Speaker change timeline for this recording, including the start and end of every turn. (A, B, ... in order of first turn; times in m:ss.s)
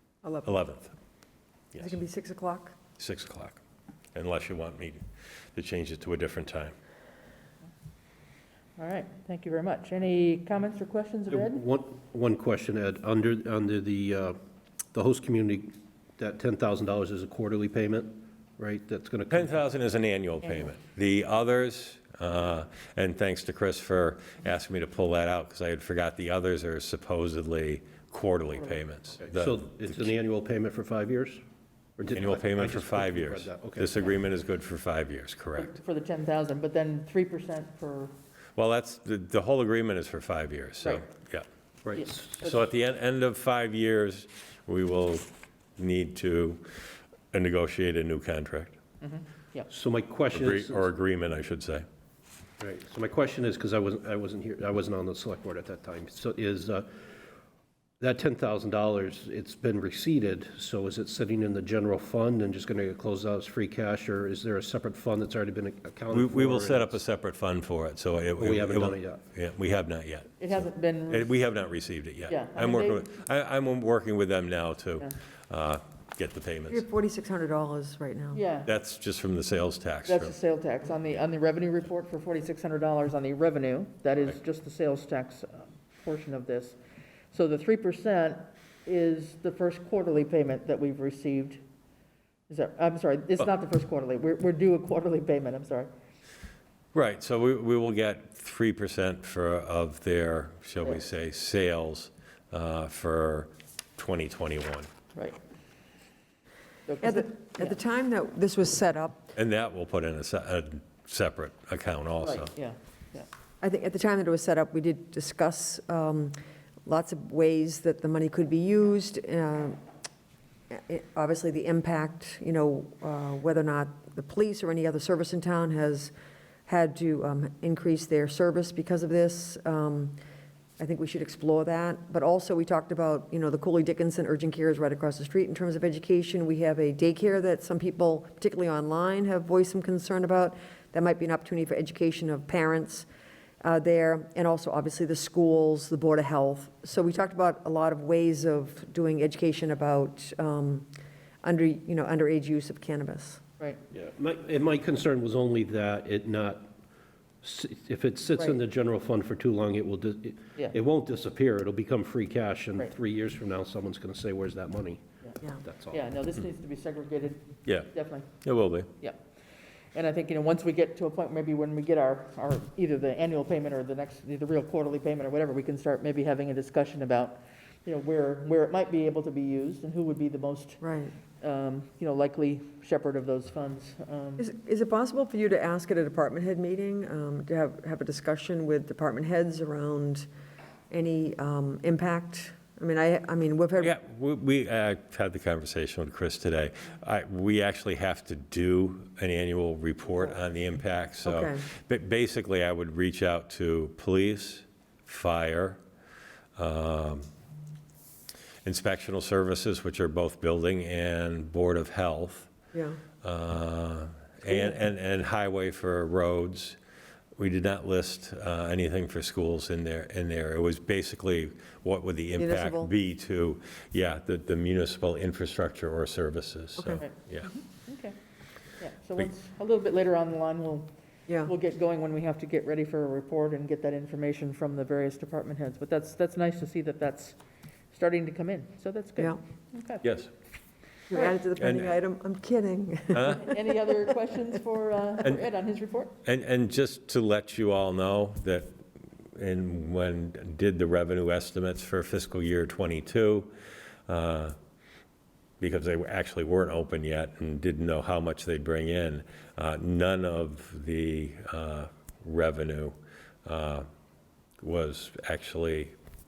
0:00.2-0:00.5 A
0:00.4-0:00.9 B
0:01.8-0:02.8 A
0:03.0-0:03.6 B
0:04.1-0:05.0 B
0:05.5-0:06.7 B
0:08.8-0:11.6 C
0:11.3-0:14.4 D
0:14.9-0:19.5 D
0:19.3-0:30.0 B
0:29.2-0:31.4 D
0:32.0-0:34.1 D
0:32.1-0:35.8 B
0:35.6-0:38.1 C
0:38.6-0:41.4 B
0:40.8-0:41.1 C
0:41.8-0:42.4 D
0:42.0-0:42.6 C
0:42.4-0:46.7 B
0:47.3-0:48.8 B
0:49.0-0:49.7 C
0:49.7-0:50.9 D
0:50.3-0:51.8 B
0:52.6-0:56.9 D
0:58.0-1:07.0 D
1:06.1-1:16.8 B
1:08.4-1:09.2 D
1:10.4-1:11.3 C
1:12.3-1:13.1 C
1:16.7-1:18.4 A
1:18.3-1:18.7 C
1:18.7-1:20.3 B
1:20.1-1:26.8 C
1:27.3-1:31.6 C
1:32.5-1:35.9 C
1:36.9-1:44.9 B
1:46.9-1:47.7 C
1:47.0-1:49.3 A
1:49.3-1:52.5 B
1:52.2-1:53.3 C
1:53.6-1:59.8 A
2:00.7-2:06.1 A
2:06.6-2:10.2 A
2:10.8-2:23.0 A
2:23.6-2:30.9 A
2:31.4-2:33.4 A
2:33.9-2:36.7 D
2:37.4-2:45.0 D
2:45.6-2:46.0 D
2:45.9-2:48.4 C
2:48.4-2:48.9 B
2:49.9-3:00.8 C
3:00.8-3:01.1 A
3:01.4-3:04.4 C
3:04.4-3:10.3 A
3:10.9-3:13.9 A
3:13.8-3:25.8 B
3:21.2-3:21.6 A
3:26.6-3:27.3 B
3:28.6-3:32.5 B
3:32.7-3:33.0 A
3:33.2-3:36.8 B
3:37.4-3:47.5 B
3:42.4-3:42.9 A
3:46.8-3:47.0 A
3:47.0-3:48.1 C
3:48.8-3:50.9 C
3:51.3-3:51.5 A
3:51.4-3:57.4 C
3:57.9-4:00.0 C
4:00.0-4:00.3 B
4:01.1-4:03.9 A
4:01.6-4:01.9 B
4:03.1-4:03.4 B
4:03.3-4:06.1 C
4:06.2-4:08.7 B
4:09.3-4:13.5 B
4:14.1-4:14.5 B
4:15.6-4:23.9 B
4:24.6-4:25.9 B